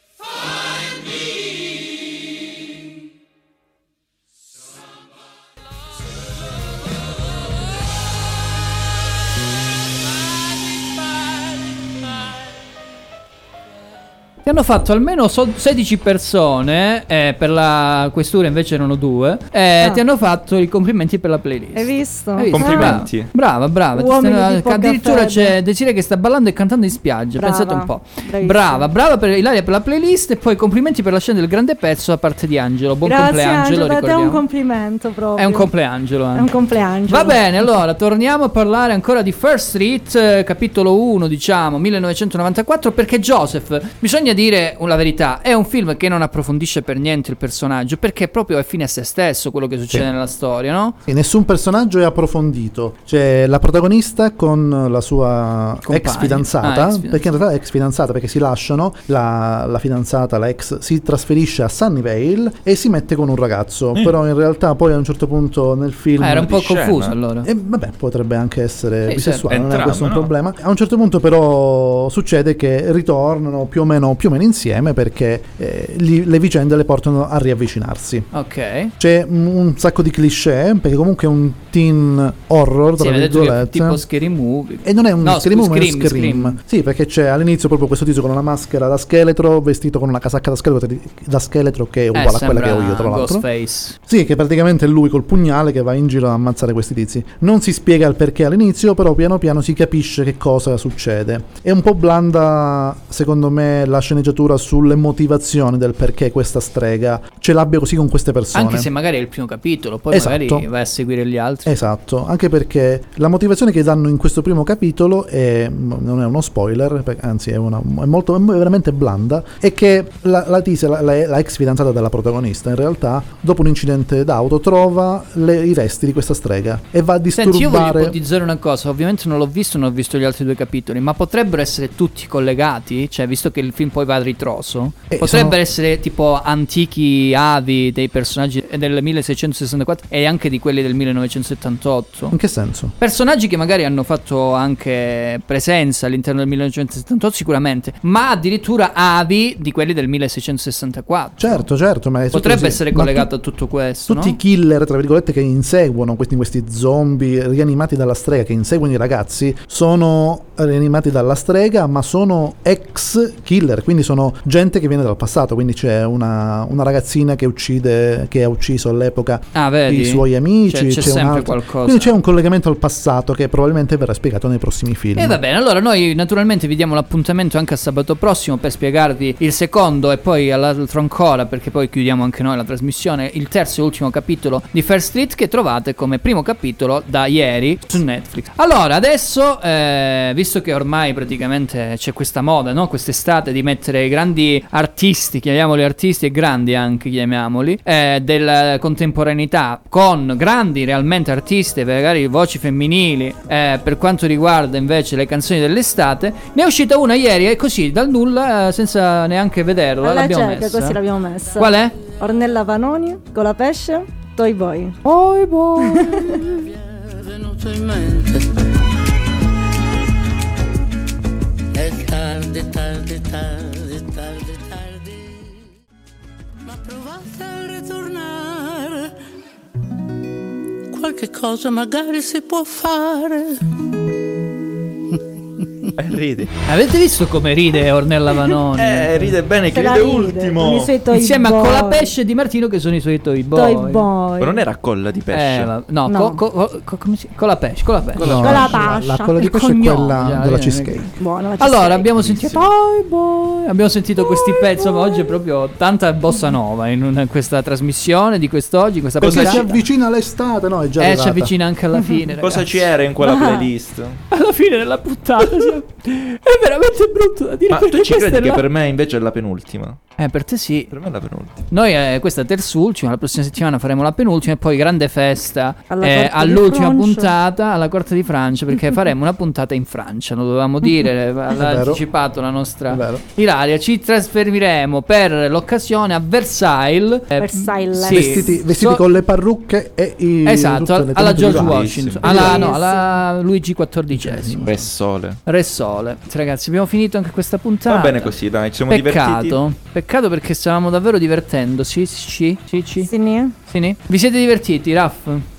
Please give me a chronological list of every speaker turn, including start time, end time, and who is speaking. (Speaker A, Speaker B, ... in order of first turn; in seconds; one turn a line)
Speaker A: 14.4-34.4
Speaker B: 21.8-23.1
Speaker C: 22.5-23.3
Speaker B: 23.9-25.6
Speaker B: 27.4-28.9
Speaker B: 33.0-35.7
Speaker A: 35.4-36.5
Speaker B: 36.3-37.4
Speaker A: 37.1-51.0
Speaker D: 51.1-66.8
Speaker A: 55.9-57.2
Speaker A: 66.2-67.5
Speaker C: 66.6-67.2
Speaker D: 67.4-78.3
Speaker A: 69.1-69.5
Speaker C: 69.5-70.3
Speaker A: 78.3-78.9
Speaker D: 79.0-84.0
Speaker A: 83.0-86.6
Speaker D: 84.8-93.5
Speaker A: 92.1-94.0
Speaker D: 94.1-108.9
Speaker A: 108.5-111.8
Speaker D: 110.1-110.7
Speaker D: 111.7-128.2
Speaker A: 127.4-142.4
Speaker D: 135.1-135.6
Speaker D: 142.3-142.9
Speaker A: 143.0-151.7
Speaker D: 151.4-153.3
Speaker A: 152.3-154.4
Speaker D: 154.1-175.4
Speaker A: 169.5-172.1
Speaker A: 175.2-211.0
Speaker B: 210.0-215.0
Speaker A: 211.6-211.9
Speaker A: 215.0-216.6
Speaker B: 215.8-216.3
Speaker E: 217.6-218.2
Speaker E: 222.4-222.8
Speaker E: 231.0-233.2
Speaker C: 235.9-236.5
Speaker A: 236.6-239.3
Speaker C: 238.8-240.9
Speaker B: 239.7-242.1
Speaker A: 241.1-244.1
Speaker B: 243.6-244.6
Speaker C: 244.4-245.7
Speaker A: 245.3-259.8
Speaker B: 246.1-246.4
Speaker C: 248.2-248.5
Speaker D: 248.2-251.1
Speaker B: 248.3-249.4
Speaker B: 251.2-252.1
Speaker C: 252.2-252.7
Speaker B: 254.4-255.3
Speaker D: 259.2-261.5
Speaker C: 259.2-259.6
Speaker A: 261.0-262.9
Speaker C: 262.4-264.2
Speaker B: 263.2-263.7
Speaker A: 264.3-268.6
Speaker C: 267.7-270.0
Speaker A: 270.2-270.9
Speaker C: 270.9-271.6
Speaker A: 271.7-289.0
Speaker B: 275.9-277.3
Speaker D: 281.5-282.0
Speaker D: 282.9-283.2
Speaker B: 287.4-288.6
Speaker D: 288.0-292.8
Speaker A: 290.4-294.6
Speaker C: 291.4-292.2
Speaker B: 292.2-293.1
Speaker D: 294.1-294.9
Speaker C: 294.6-295.4
Speaker A: 295.4-298.4
Speaker C: 297.9-299.6
Speaker A: 298.9-303.1
Speaker B: 303.0-303.6
Speaker A: 303.7-305.4